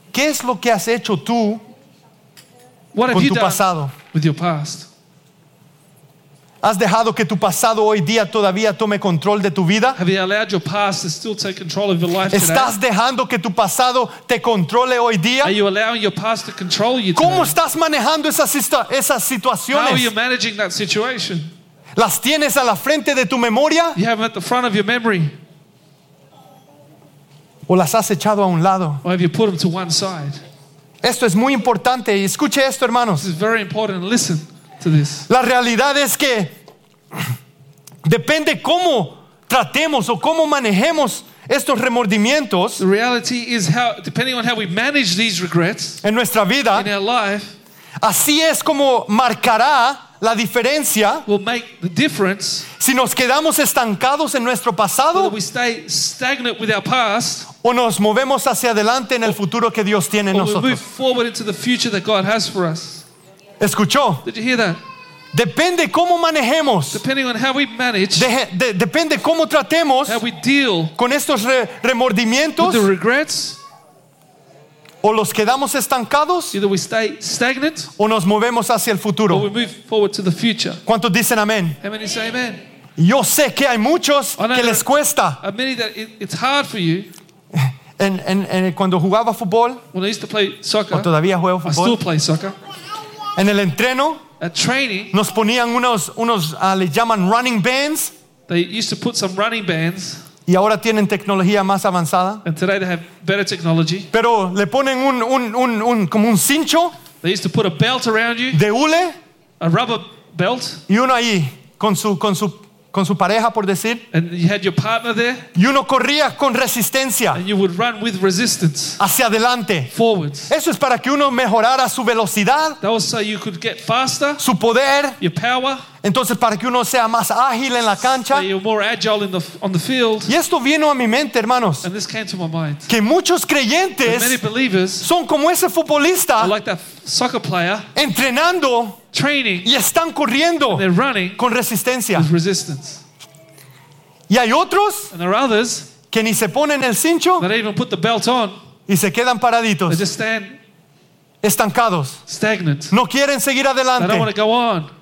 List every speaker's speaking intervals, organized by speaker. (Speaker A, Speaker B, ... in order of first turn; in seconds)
Speaker A: 0.1-1.6, 3.1-3.9, 6.6-10.0, 12.3-15.6, 17.2-20.1, 22.0-24.0, 27.7-29.0, 31.0-33.3, 35.3-36.5, 38.0-42.8, 46.0-46.9, 48.0-51.2, 52.8-55.4, 57.6-60.8, 63.6-64.2, 65.3-67.0, 68.2-70.2, 71.0-72.9, 75.0-76.6, 78.0-79.5, 80.9-81.8, 83.0-85.4, 87.5-89.8, 90.9-92.0, 93.4-94.2, 95.1-98.1, 100.5-102.4, 104.1-107.0, 108.5-109.2, 110.9-114.0, 115.5-117.4, 119.0-119.9, 120.5-122.8, 124.4-125.2, 126.0-128.5, 130.3-131.9, 132.9-134.4, 135.0-136.5, 137.9-139.0, 139.6-142.3, 144.3-145.1, 146.1-147.5, 148.9-150.1, 151.4-152.2, 152.9-154.3
Speaker B: 2.9-4.9, 9.9-12.8, 15.4-17.5, 19.7-21.5, 23.9-25.3, 29.0-30.4, 33.2-35.3, 42.8-46.0, 46.7-47.5, 51.3-52.7, 55.1-57.5, 60.3-63.0, 64.2-64.8, 66.9-68.3, 70.1-70.9, 72.6-73.6, 76.5-77.9, 79.3-80.8, 81.8-82.6, 84.4-84.9, 85.4-87.1, 89.9-91.1, 91.6-92.6, 94.4-95.2, 98.5-100.2, 102.4-104.1, 107.2-108.6, 109.6-110.8, 114.1-115.5, 117.3-119.0, 119.9-120.5, 122.8-124.4, 125.2-125.8, 128.1-130.3, 131.8-132.9, 134.0-135.1, 136.4-137.9, 139.1-139.7, 140.7-141.4, 142.2-143.0, 145.1-145.9, 147.4-148.6, 149.9-150.6, 152.3-152.9, 154.0-154.9